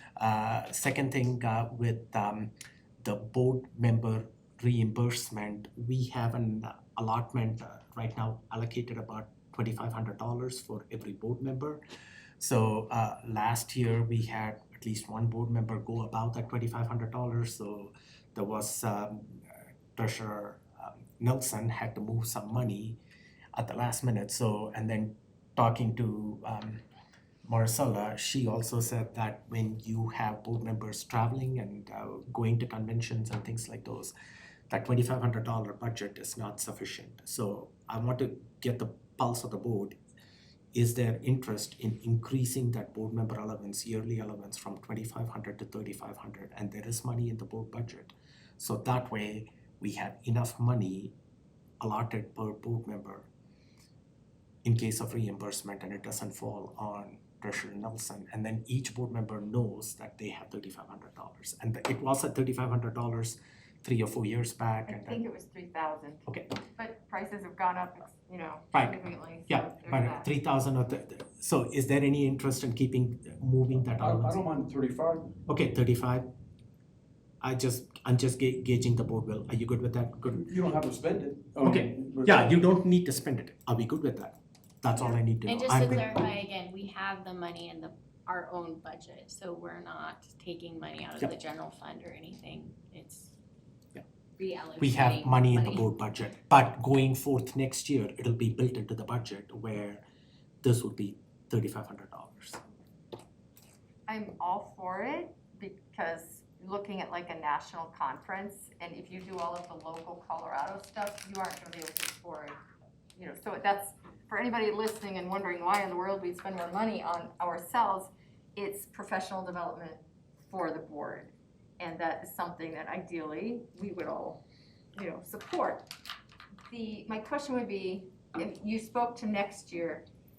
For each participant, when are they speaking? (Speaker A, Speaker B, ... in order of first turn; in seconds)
Speaker A: 0.2-11.8, 12.4-23.0, 23.6-26.8, 27.5-34.1, 34.7-40.0, 40.7-51.1, 51.8-53.3, 54.6-65.2, 69.5-74.4, 75.5-76.3, 77.4-80.5, 81.6-86.1, 94.8-100.0, 100.6-102.6
Speaker B: 64.9-70.3, 104.1-112.6, 113.2-124.4, 125.0-125.9, 126.7-130.1
Speaker C: 74.0-75.3, 80.3-82.5
Speaker D: 85.0-93.3, 94.4-95.9